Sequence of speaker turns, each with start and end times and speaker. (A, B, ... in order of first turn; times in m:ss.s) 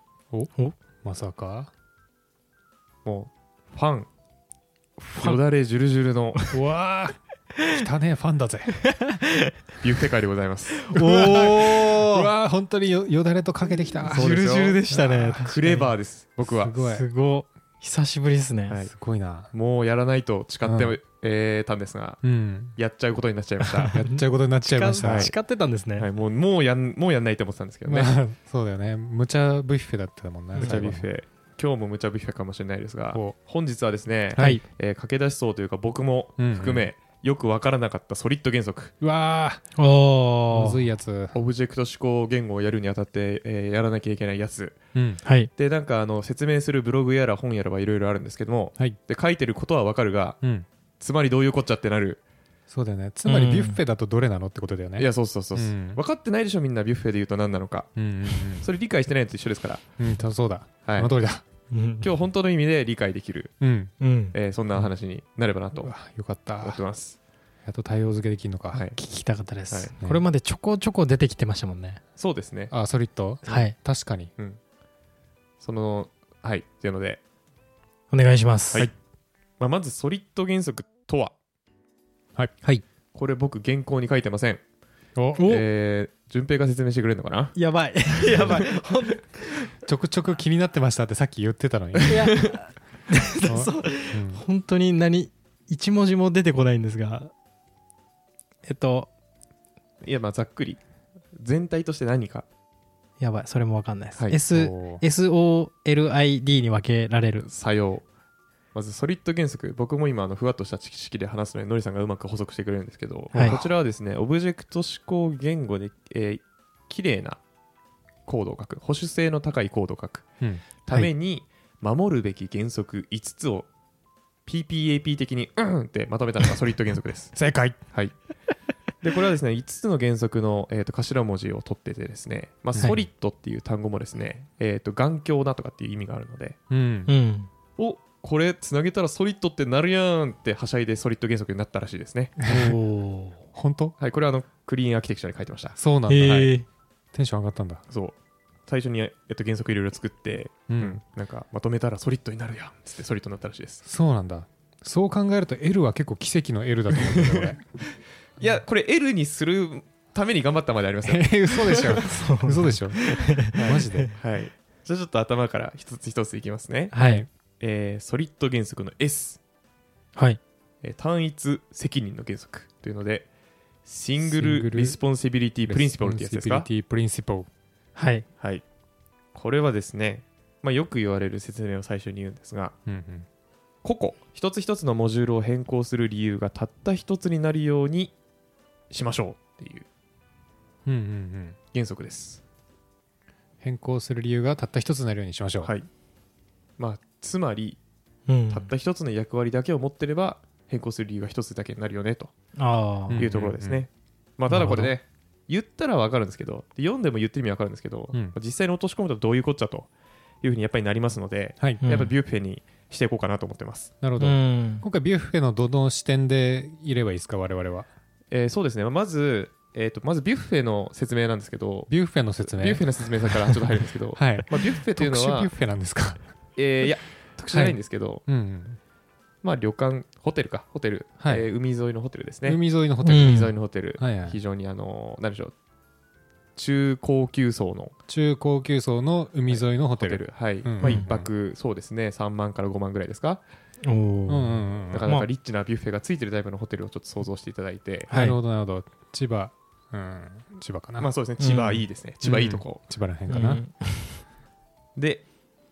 0:01.0-0:01.7 A
0:03.0-0:04.1 B
0:05.0-0:05.4 C
0:05.2-0:06.5 B
0:06.5-0:08.9 A
0:08.9-0:09.5 C
0:09.8-0:10.8 B
0:10.8-0:12.3 C
0:10.9-0:15.5 A
0:14.0-0:15.9 C
0:14.1-0:16.7 B
0:16.4-0:17.0 A
0:16.7-0:18.8 C
0:18.9-0:19.5 A
0:19.5-0:22.2 B
0:20.6-0:21.0 A
0:22.2-0:22.8 A
0:22.8-0:24.0 B
0:23.8-0:26.1 C
0:23.9-0:25.3 A
0:25.0-0:25.3 B
0:26.0-0:28.1 B
0:27.9-0:31.1 A
0:30.6-0:38.9 B
0:34.4-0:34.6 A
0:34.4-0:34.6 C
0:36.4-0:36.9 A
0:39.0-0:39.6 A
0:39.8-0:40.8 C
0:40.5-0:41.4 A
0:41.3-0:44.8 B
0:44.9-0:45.2 A
0:45.2-0:45.5 C
0:45.6-0:50.4 B
0:51.0-0:52.2 B
0:52.7-0:56.0 A
0:53.3-0:53.8 C
0:55.0-0:59.8 B
0:58.0-0:58.7 A
1:00.0-1:01.4 A
1:00.8-1:01.1 B
1:01.7-1:02.1 C
1:02.0-1:03.5 B
1:03.6-1:03.9 A
1:04.0-1:04.4 C
1:04.3-1:05.9 B
1:05.8-1:06.8 A
1:06.6-1:07.2 B
1:07.7-1:08.9 A
1:08.7-1:09.0 B
1:09.0-1:12.0 C
1:12.2-1:12.7 B
1:12.7-1:14.3 A
1:13.5-1:13.8 C
1:15.6-1:17.2 B
1:18.1-1:18.9 C
1:19.6-1:21.3 B
1:23.1-1:24.6 B
1:25.2-1:25.4 A
1:25.4-1:25.6 C
1:25.4-1:27.6 B
1:27.6-1:29.7 C
1:28.2-1:28.9 B
1:29.8-1:32.4 A
1:32.1-1:37.3 C
1:32.3-1:32.6 B
1:33.4-1:34.4 A
1:38.6-1:39.1 C
1:40.0-1:40.8 B
1:41.4-1:42.5 B
1:43.2-1:47.5 C
1:44.5-1:45.0 A
1:47.4-1:48.0 B
1:48.8-1:57.4 B
1:53.3-1:53.6 C
1:53.3-1:53.6 A
1:58.3-2:00.3 B
2:00.8-2:03.7 B
2:04.5-2:07.3 B
2:07.3-2:07.8 A
2:09.0-2:16.6 B
2:16.7-2:17.1 A
2:17.1-2:17.5 C
2:17.8-2:22.4 B
2:22.4-2:22.8 A
2:22.5-2:23.4 C
2:23.5-2:24.0 A
2:24.0-2:25.8 B
2:25.8-2:26.6 A
2:26.1-2:26.6 C
2:27.1-2:27.8 A
2:27.9-2:28.2 B
2:28.7-2:33.8 B
2:30.7-2:31.0 A
2:33.8-2:37.6 A
2:37.0-2:37.6 B
2:38.4-2:42.0 B
2:41.0-2:44.1 A
2:42.0-2:44.1 C
2:43.5-2:47.0 B
2:46.9-2:47.3 C
2:47.0-2:47.3 A
2:47.6-2:49.4 B
2:50.8-2:53.3 B
2:53.8-2:56.7 B
2:54.2-2:55.0 A
2:55.7-2:57.5 A
2:58.0-2:58.3 C
2:58.4-2:58.6 B
2:59.3-3:02.8 B
3:02.9-3:03.3 A
3:03.8-3:08.1 B
3:08.9-3:09.9 B
3:10.9-3:11.6 A
3:11.7-3:12.4 B
3:13.6-3:15.7 A
3:16.8-3:17.8 B
3:18.3-3:18.7 C
3:18.5-3:22.3 B
3:22.6-3:23.2 C
3:23.1-3:23.8 A
3:23.1-3:29.9 B
3:24.5-3:24.9 A
3:30.4-3:33.9 B
3:31.8-3:32.1 C
3:34.0-3:37.9 A
3:34.2-3:34.8 C
3:38.3-3:45.5 B
3:41.9-3:46.2 A
3:46.6-3:48.2 B
3:47.5-3:48.8 A
3:49.4-3:55.5 B
3:51.2-3:51.5 A
3:52.5-3:53.4 A
3:53.0-3:53.5 C
3:54.0-3:54.4 A
3:56.6-3:58.0 B
3:58.1-4:01.3 A
3:59.5-4:03.4 B
4:00.8-4:01.1 C
4:03.8-4:05.3 C
4:04.3-4:05.1 A
4:04.9-4:08.1 B
4:08.1-4:08.4 C
4:08.1-4:11.1 A
4:11.0-4:12.8 B
4:11.4-4:11.9 C
4:12.2-4:13.6 A
4:13.3-4:14.2 C
4:15.0-4:15.2 B